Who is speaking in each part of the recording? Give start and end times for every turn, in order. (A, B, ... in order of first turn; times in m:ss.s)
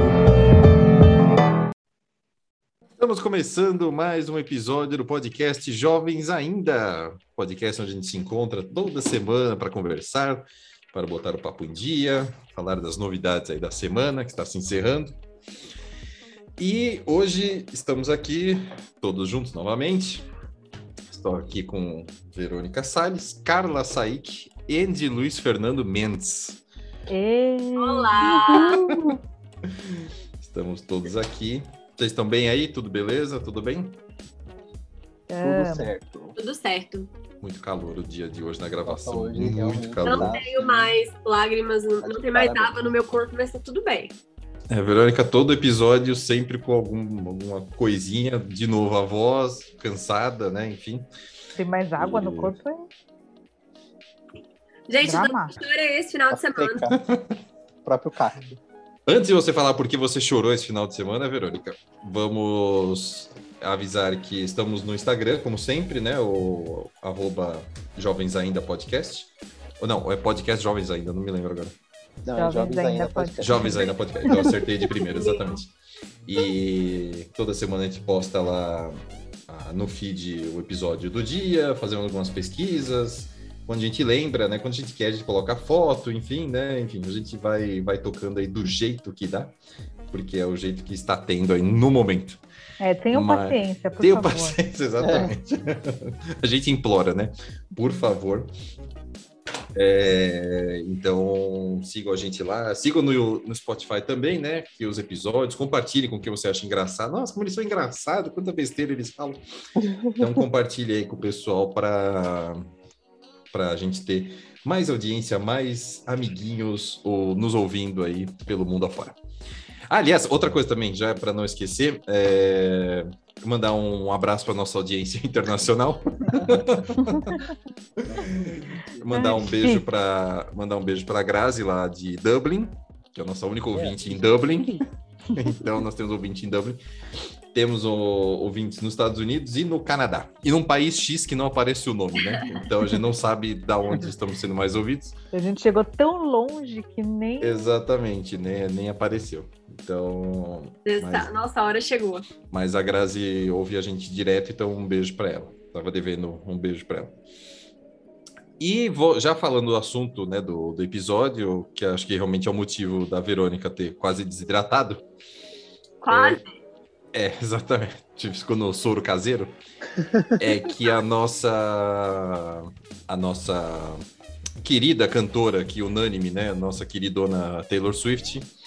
0:03.0-0:15.2 A
0:16.6-0:20.3 A
0:21.1-0:26.6 A
0:27.1-0:29.2 B
0:27.8-0:28.8 C
0:29.8-0:34.0 A
0:35.3-0:35.9 B
0:35.4-0:36.4 D
0:36.4-0:37.1 C
0:37.4-0:40.4 A
0:38.9-0:40.9 D
0:40.0-0:44.1 C
0:42.0-0:42.8 D
0:44.7-0:51.1 A
0:51.6-0:52.8 B
0:52.0-0:52.6 A
0:54.9-0:56.9 C
0:55.0-0:55.6 B
0:56.3-0:57.0 D
0:57.0-0:57.2 A
0:57.8-0:58.6 D
0:59.1-1:11.8 A
1:12.2-1:14.4 D
1:12.4-1:14.3 B
1:13.4-1:15.7 A
1:15.0-1:15.6 C
1:16.3-1:29.5 A
1:30.1-1:32.4 A
1:32.8-1:34.6 B
1:33.1-1:38.5 A
1:35.0-1:35.3 D
1:39.8-1:49.4 A
1:50.2-1:52.6 A
1:53.5-1:59.2 A
1:59.9-2:07.4 A
2:08.1-2:09.0 D
2:08.2-2:14.8 A
2:09.1-2:09.8 B
2:13.8-2:14.8 D
2:15.3-2:16.8 A
2:17.5-2:25.1 A
2:25.3-2:27.7 B
2:27.4-2:31.3 A
2:30.9-2:32.2 C
2:32.5-2:37.2 A
2:38.6-2:45.0 A
2:46.0-2:46.5 C
2:46.1-2:46.4 A
2:47.1-2:49.6 A
2:50.4-2:54.0 A
2:54.6-2:58.5 A